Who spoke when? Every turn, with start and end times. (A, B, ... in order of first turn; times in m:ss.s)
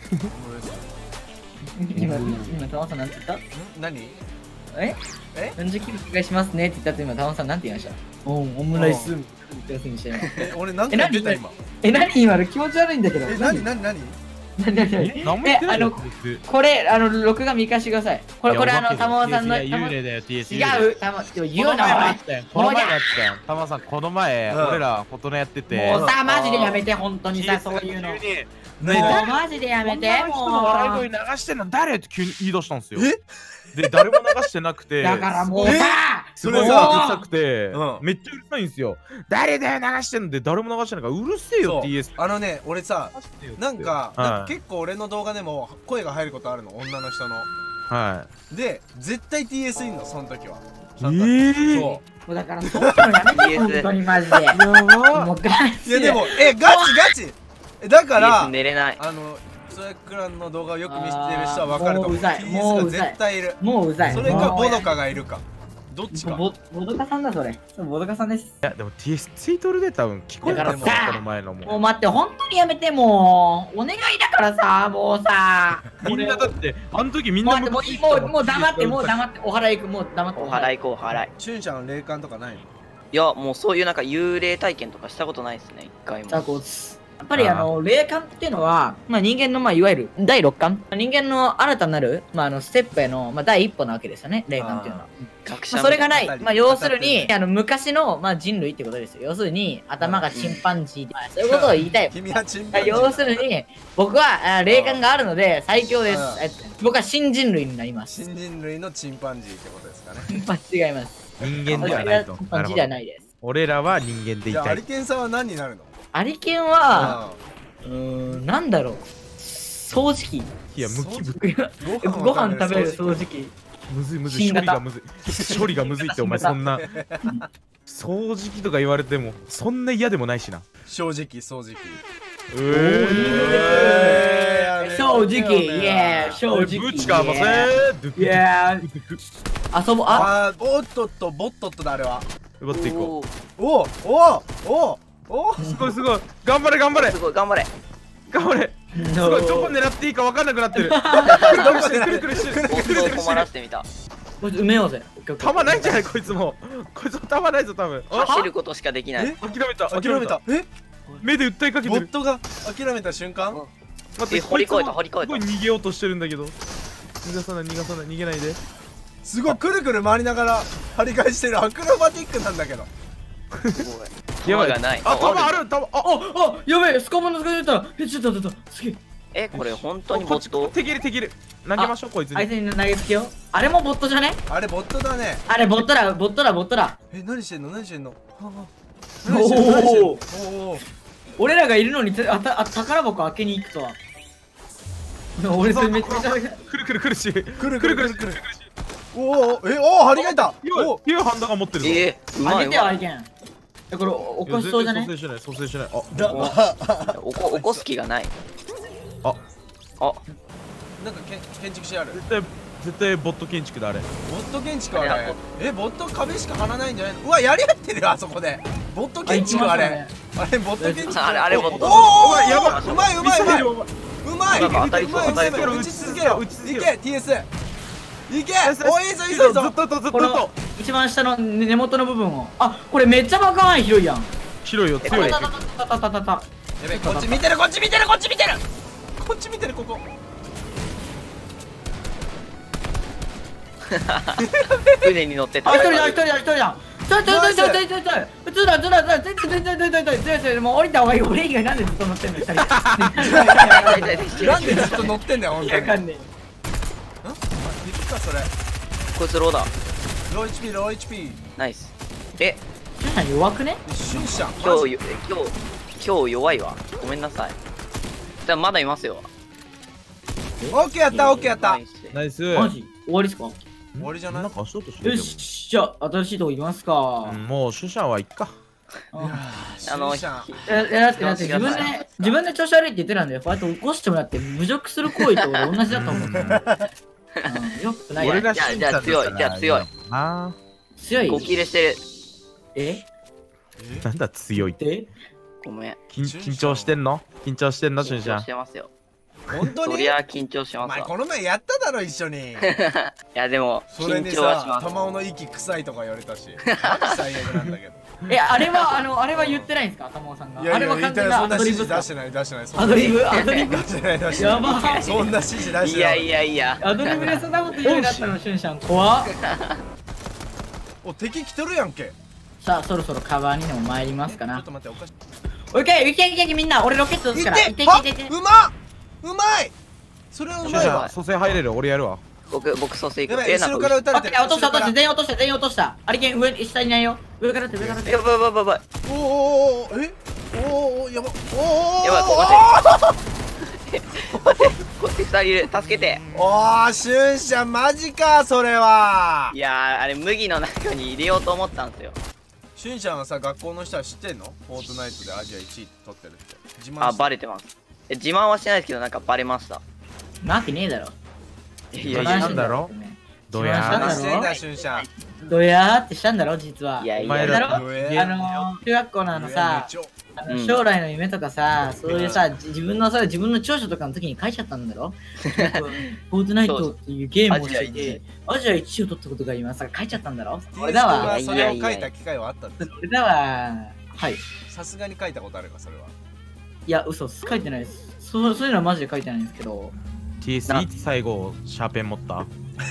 0:00.3-0:00.9 A
0:01.8-0:03.4 B
0:03.5-0:04.2 A
0:05.6-0:10.4 B
0:08.7-0:09.1 A
0:10.4-0:11.6 A
0:10.9-0:13.7 B
0:13.2-0:14.2 A
0:14.6-0:23.0 B
0:15.0-0:16.4 C
0:18.5-0:20.9 C
0:21.6-0:26.7 C
0:24.5-0:24.9 A
0:25.7-0:28.2 B
0:25.8-0:26.2 A
0:27.3-0:33.1 C
0:28.8-0:29.3 A
0:28.9-0:31.1 B
0:32.9-0:33.2 A
0:33.7-0:35.8 C
0:35.0-0:37.3 B
0:35.6-0:37.1 A
0:36.4-0:42.2 C
0:37.7-0:38.0 A
0:41.6-0:47.5 A
0:43.1-0:44.5 C
0:47.9-0:48.3 C
0:48.5-0:52.0 A
0:51.0-0:52.0 C
0:52.2-0:57.1 B
0:52.7-0:53.2 A
0:53.3-0:53.9 D
0:54.5-0:55.3 C
0:55.8-1:06.4 A
0:58.2-0:59.0 D
1:00.9-1:04.9 B
1:04.0-1:04.6 C
1:06.1-1:08.6 B
1:08.6-1:11.8 C
1:10.4-1:11.1 A
1:10.4-1:16.5 B
1:16.0-1:19.2 C
1:17.4-1:20.8 B
1:20.4-1:21.3 D
1:21.4-1:22.7 A
1:23.1-1:26.6 D
1:26.3-1:42.1 B
1:27.4-1:27.7 C
1:34.6-1:35.1 A
1:35.5-1:36.2 D
1:36.1-1:37.3 A
1:40.0-1:40.3 A
1:40.3-1:40.6 D
1:41.5-1:43.4 A
1:42.7-1:48.1 B
1:44.7-1:45.1 A
1:46.1-1:46.4 A
1:48.1-1:50.3 A
1:50.3-1:53.2 B
1:51.4-1:54.8 C
1:51.7-1:52.0 A
1:51.7-1:52.0 D
1:54.5-1:55.9 A
1:56.1-1:57.2 B
1:56.9-1:57.4 A
1:57.8-2:00.6 B
2:00.7-2:01.4 C
2:00.8-2:03.2 A
2:01.4-2:03.6 B
2:03.9-2:06.8 C
2:04.2-2:04.8 B
2:05.4-2:05.7 A
2:05.5-2:06.6 B
2:06.6-2:07.4 A
2:07.9-2:10.6 C
2:10.9-2:12.0 A
2:12.5-2:14.7 C
2:12.7-2:16.4 A
2:12.7-2:14.2 B
2:14.8-2:18.9 B
2:16.5-2:19.2 C
2:19.7-2:20.3 B
2:20.1-2:22.3 A
2:22.6-2:23.1 C
2:22.7-2:23.3 D
2:23.6-2:25.6 A
2:25.6-2:26.0 B
2:25.7-2:27.2 C
2:26.9-2:27.7 D
2:28.3-2:33.4 C
2:29.0-2:29.8 B
2:30.8-2:31.4 B
2:31.3-2:31.7 D
2:31.4-2:33.5 A
2:32.7-2:33.9 D
2:34.4-2:36.2 B
2:35.4-2:38.4 C
2:38.1-2:38.5 B
2:38.2-2:39.4 D
2:39.2-2:40.7 A
2:39.4-2:40.4 C
2:41.2-2:42.1 C
2:41.8-2:43.6 A
2:44.2-2:46.6 C
2:44.3-2:45.4 D
2:47.2-2:48.6 C
2:49.2-2:52.9 A
2:53.6-2:53.9 C
2:53.8-2:55.6 D
2:54.4-2:56.1 C
2:56.0-2:59.0 B
2:59.3-3:00.8 D
2:59.5-3:02.5 C
3:01.8-3:04.4 B
3:04.5-3:05.4 A
3:05.5-3:07.0 B
3:07.1-3:08.7 A
3:09.2-3:10.8 A
3:09.2-3:10.2 B
3:11.4-3:14.0 B
3:15.4-3:16.6 B
3:15.6-3:18.7 C
3:17.6-3:18.4 A
3:19.1-3:21.0 A
3:20.2-3:22.1 C
3:21.8-3:23.0 D
3:22.4-3:23.3 B
3:23.9-3:25.1 B
3:24.5-3:26.4 C
3:26.1-3:27.9 A
3:26.3-3:26.6 D
3:27.1-3:28.3 D
3:31.0-3:32.2 A
3:32.1-3:34.1 C
3:34.3-3:43.7 A
3:34.9-3:35.4 D
3:39.3-3:40.1 B
3:40.8-3:42.1 B
3:41.1-3:43.1 D
3:42.0-3:43.9 C
3:44.2-3:47.5 A
3:44.5-3:46.9 C
3:44.5-3:45.9 D
3:48.3-3:49.8 A
3:48.6-3:50.5 C
3:50.1-3:54.3 B
3:54.6-3:55.5 C
3:55.0-3:55.5 D
3:55.1-3:57.4 B
3:56.8-3:58.6 A
3:59.2-4:00.0 A
4:03.9-4:04.4 D
4:04.4-4:05.1 A
4:05.0-4:06.2 D
4:05.6-4:16.3 B
4:07.2-4:07.8 A
4:13.2-4:13.7 A
4:13.4-4:15.0 D
4:14.4-4:16.0 A
4:17.2-4:18.5 A
4:19.1-4:19.7 D
4:20.3-4:21.4 A
4:21.6-4:22.6 D
4:23.0-4:24.2 B
4:23.8-4:24.9 A
4:24.6-4:27.6 D
4:28.4-4:29.3 D
4:30.7-4:31.8 A
4:31.1-4:32.2 D
4:32.1-4:32.7 C
4:32.5-4:33.6 B
4:34.0-4:35.5 C
4:34.0-4:34.5 A
4:35.0-4:37.4 B
4:37.3-4:38.6 C
4:39.1-4:39.4 B
4:39.2-4:40.6 A
4:39.9-4:42.4 D
4:40.7-4:46.3 B
4:41.4-4:41.9 A
4:45.9-4:46.6 C
4:46.1-4:46.9 A
4:47.5-4:48.5 B
4:48.2-4:50.6 C
4:48.2-4:49.9 D
4:51.0-4:51.6 B
4:51.2-4:52.0 D
4:52.8-4:53.1 B
4:53.8-4:54.1 A
4:54.0-4:54.8 C
4:54.6-4:55.1 B
4:55.6-4:56.0 D
4:56.1-4:58.5 C
4:56.2-4:57.0 A
4:58.0-4:58.9 D
4:59.5-5:00.2 A
4:59.8-5:01.1 D
5:00.8-5:02.7 A
5:02.6-5:05.0 D
5:03.9-5:08.0 A
5:06.7-5:07.2 D
5:08.3-5:12.1 B
5:09.4-5:09.6 A
5:10.6-5:16.3 A
5:12.8-5:15.2 B
5:13.3-5:13.7 D
5:14.3-5:17.4 D
5:16.8-5:19.3 B
5:17.3-5:18.3 C
5:19.4-5:19.8 D
5:21.0-5:22.2 A
5:22.6-5:24.6 B
5:24.3-5:25.1 A
5:25.7-5:28.3 B
5:27.3-5:29.7 A
5:30.3-5:31.1 A
5:30.6-5:31.1 D
5:30.6-5:32.2 C
5:32.5-5:34.0 D
5:33.3-5:35.0 A
5:34.1-5:38.2 B
5:38.0-5:38.8 D
5:39.0-5:43.2 A
5:42.0-5:42.8 D
5:43.7-5:46.2 D
5:45.9-5:46.6 C
5:46.3-5:49.6 A
5:49.5-5:52.2 D
5:52.8-5:57.3 A
5:57.0-5:59.8 D
6:00.4-6:01.2 B
6:01.9-6:02.7 D
6:02.0-6:02.9 C
6:02.0-6:04.5 B
6:03.5-6:04.2 C
6:03.8-6:05.1 D
6:03.9-6:05.1 A
6:05.4-6:21.4 B
6:07.0-6:07.8 D
6:07.2-6:08.8 C
6:07.5-6:08.3 A
6:09.3-6:10.1 A
6:10.5-6:10.8 D
6:12.1-6:12.5 A
6:15.5-6:15.8 D
6:16.6-6:16.9 D
6:17.5-6:18.2 D
6:20.7-6:22.9 A
6:21.1-6:22.1 D
6:22.8-6:24.4 B
6:24.7-6:26.1 A
6:26.9-6:29.9 B
6:30.4-6:32.5 C